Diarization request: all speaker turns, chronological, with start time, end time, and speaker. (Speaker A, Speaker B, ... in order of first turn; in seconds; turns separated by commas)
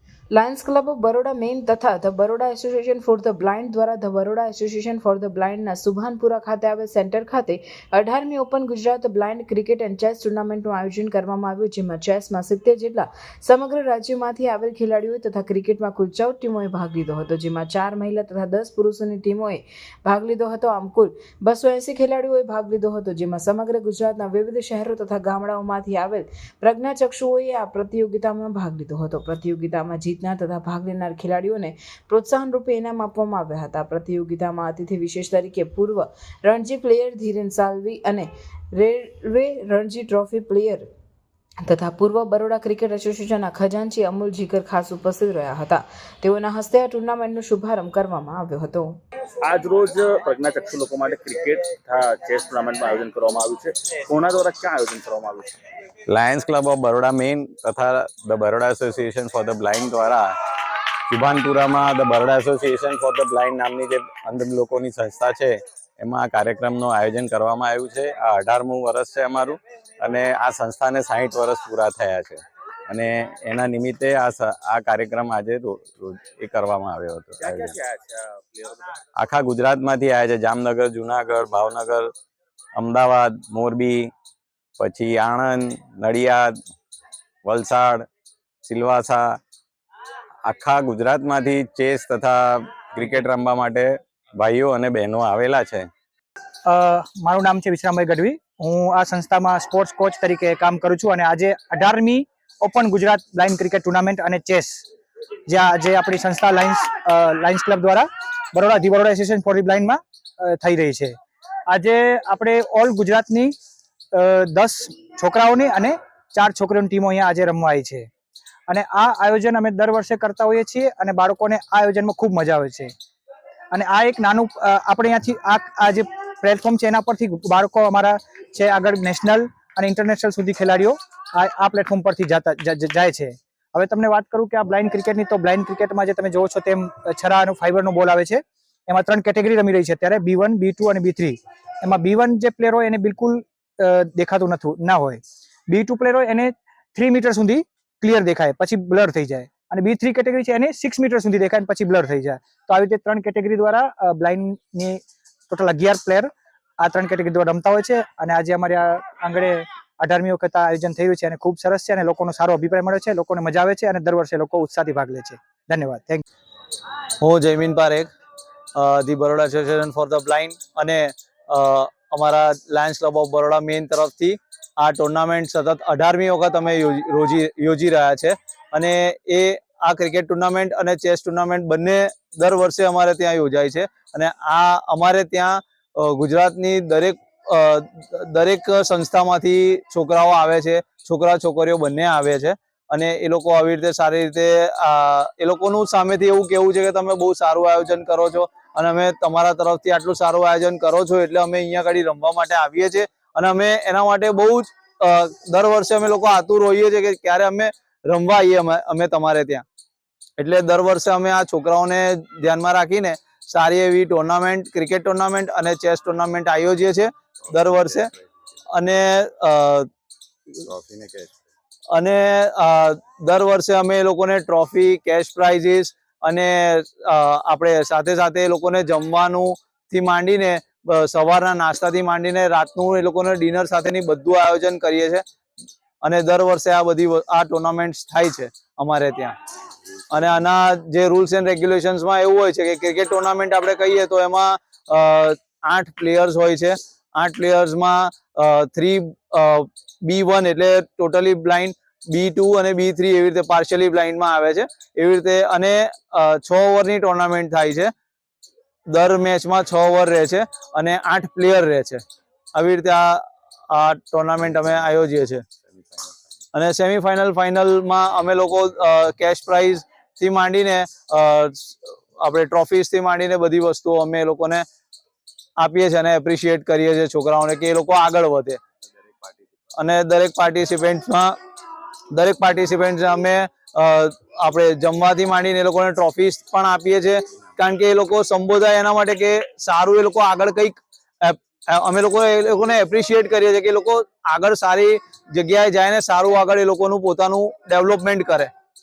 Speaker A: 0.3-40.9, Speaker A: 41.6-49.0, Speaker B: 49.4-55.5, Speaker C: 56.1-60.3, Speaker C: 61.1-77.8, Speaker B: 77.5-78.9, Speaker C: 79.2-82.1, Speaker C: 82.8-84.1, Speaker C: 84.8-86.6, Speaker C: 87.5-88.1, Speaker C: 88.6-89.4, Speaker C: 90.5-95.9, Speaker D: 96.7-104.8, Speaker D: 105.5-111.2, Speaker D: 111.7-113.5, Speaker D: 114.1-118.1, Speaker D: 118.7-122.9, Speaker D: 123.7-166.2, Speaker E: 167.2-168.1, Speaker E: 168.8-209.6, Speaker E: 210.4-218.1, Speaker C: 217.5-218.3, Speaker E: 218.8-219.9, Speaker C: 220.7-221.4, Speaker E: 221.9-235.2, Speaker E: 236.0-239.4, Speaker E: 240.1-257.9, Speaker E: 258.9-262.0, Speaker E: 262.6-265.4, Speaker C: 265.7-266.1, Speaker E: 266.5-274.7, Speaker E: 275.6-278.6, Speaker E: 279.8-281.4, Speaker E: 282.1-298.5